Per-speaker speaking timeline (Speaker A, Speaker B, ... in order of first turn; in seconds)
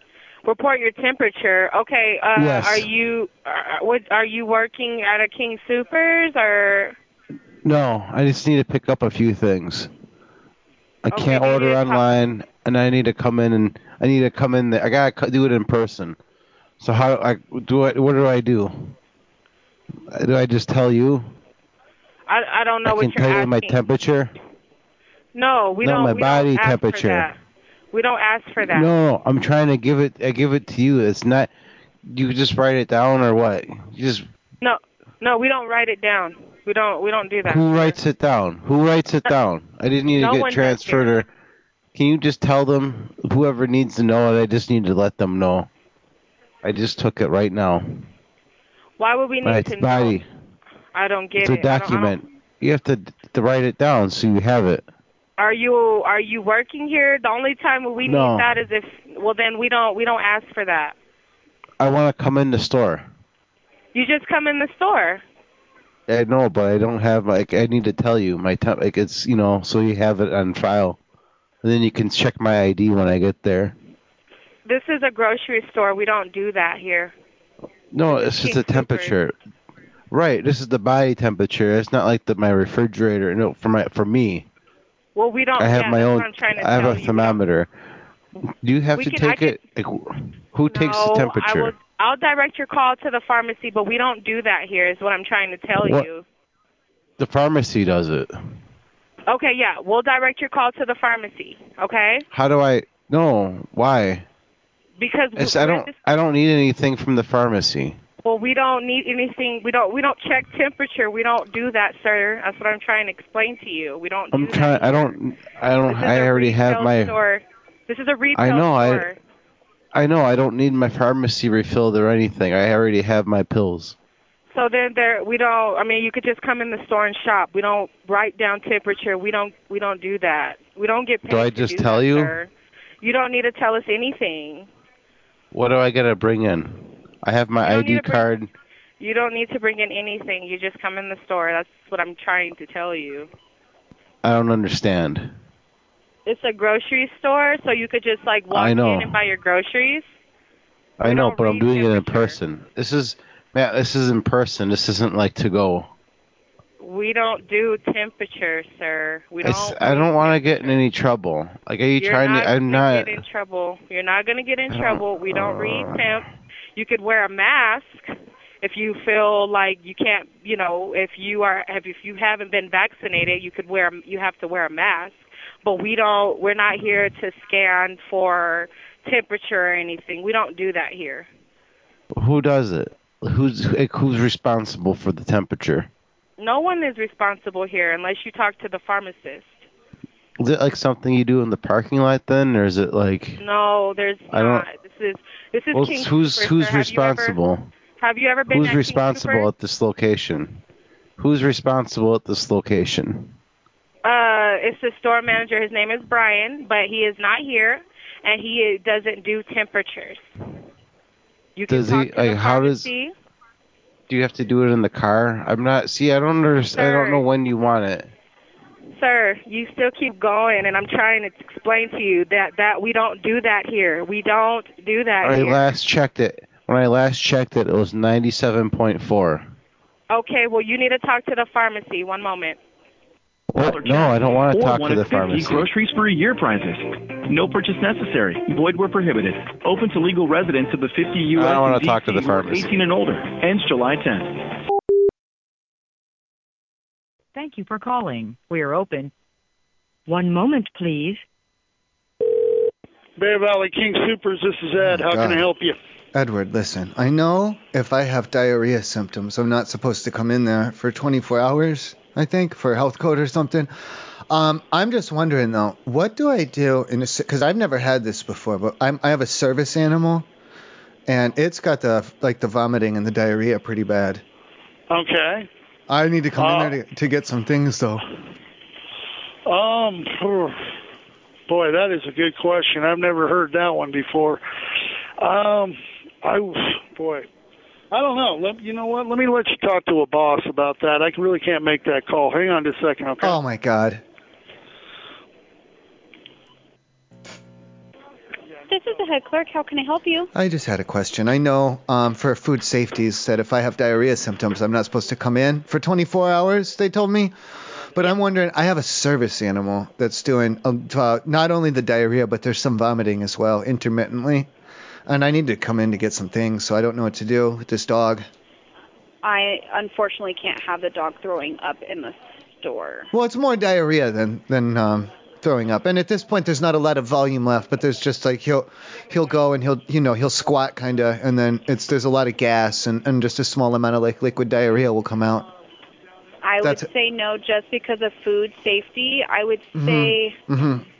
Speaker A: 0.4-7.0, 11.1-12.0, 22.3-23.8, 25.3-27.4, 27.9-28.9, 34.6-38.0, 40.1-41.2, 49.0-50.2, 50.9-52.2, 55.4-60.9, 63.9-65.2, 74.7-77.1, 78.0-79.1, 85.1-87.4, 88.9-89.6, 90.7-96.2, 99.3-102.2, 105.0-106.0, 108.2-115.1, 115.8-119.2, 124.5-132.5, 133.0-134.7, 137.6-138.3, 139.0-143.3, 146.2-150.1, 151.0-152.4, 156.8-160.8, 162.0-166.2, 166.7-181.3, 186.4-189.6, 193.4-197.4, 198.0-199.5, 204.0-210.2, 211.6-213.1, 216.8-217.2, 218.9-225.7, 230.1-232.6
Speaker B: 2.3-2.9, 7.6-9.9, 11.0-16.2, 16.8-18.9, 20.1-21.3, 22.8-24.3, 25.8-27.3, 28.6-31.5, 32.0-34.2, 37.4-41.3, 41.9-45.7, 46.6-48.0, 49.4-50.3, 51.4-54.8, 58.0-58.5, 61.8-63.1, 66.1-71.0, 71.6-73.7, 77.9-79.3, 80.1-84.5, 85.6-87.7, 88.6-91.8, 95.8-96.1, 97.2-98.3, 102.3-104.2, 105.3-108.0, 114.3-117.2, 118.3-119.1, 119.9-124.0, 131.3-132.4, 135.5-138.5, 144.2-145.3, 148.5-149.2, 151.0-155.9, 159.4-163.2, 164.7-166.3, 182.1-185.9, 190.4-193.4, 194.3-194.7, 195.7-197.7, 198.5-200.6, 201.2-203.3, 211.7-212.9, 214.1-218.1, 225.2-229.5, 233.5-235.7, 241.3-242.8
Speaker C: 233.7-244.4
Speaker D: 247.3-249.1, 250.1-251.2
Speaker E: 253.2-255.8, 274.9-275.5, 276.4-276.7, 279.4-280.6, 281.5-284.4, 285.2-287.3, 287.9-293.4
Speaker F: 254.8-255.5, 256.1-263.7, 264.3-270.3, 271.1-274.2, 275.9-278.0, 293.2-294.0, 300.3-307.3, 307.9-314.5, 315.1-318.2, 323.1-335.4, 336.6-336.9, 339.7-340.8
Speaker G: 298.7-300.3, 319.2-323.1, 336.4-340.4